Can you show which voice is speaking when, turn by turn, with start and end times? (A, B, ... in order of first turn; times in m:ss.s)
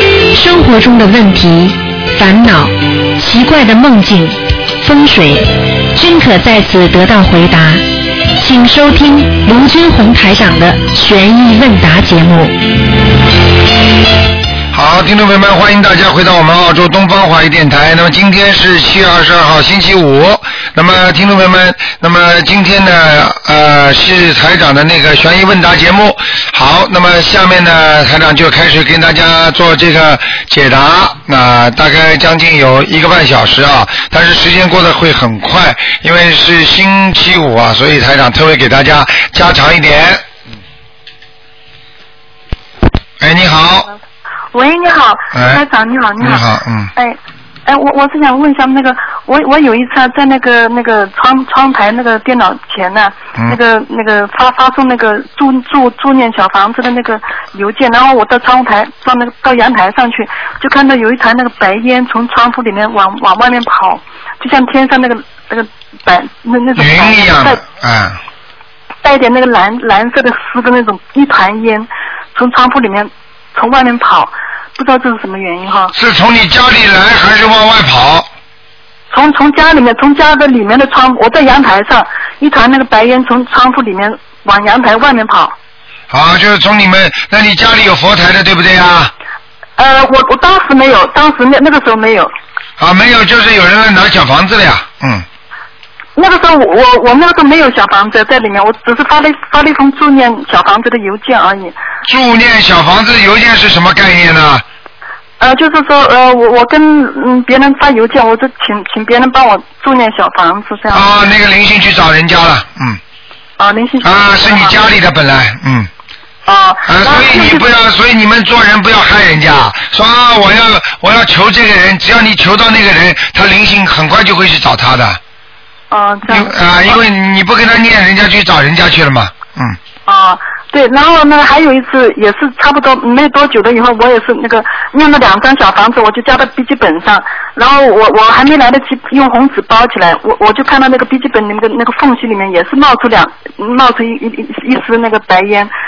0:00.3-0:07.8 A
0:08.4-0:12.6 A
0:14.7-0:40.2 B
0:43.2-0:43.9 B
0:44.5-0:46.4 C
0:45.3-0:45.6 B
0:46.2-0:46.9 B
0:47.0-1:07.6 C
1:06.8-1:08.2 B
1:09.0-1:15.9 C
1:15.9-1:18.3 B
1:19.1-1:25.6 C
1:26.1-1:29.1 B
1:29.8-1:32.3 C
1:32.8-1:35.3 B
1:36.2-1:41.8 C
1:42.0-1:44.6 B
1:45.4-1:51.1 C
1:50.9-1:53.0 B
1:53.6-1:54.8 C
1:54.0-1:55.9 B
1:56.5-1:57.7 C
1:56.9-2:05.2 B
2:05.9-2:07.0 C
2:06.3-2:09.8 B
2:10.1-2:25.7 C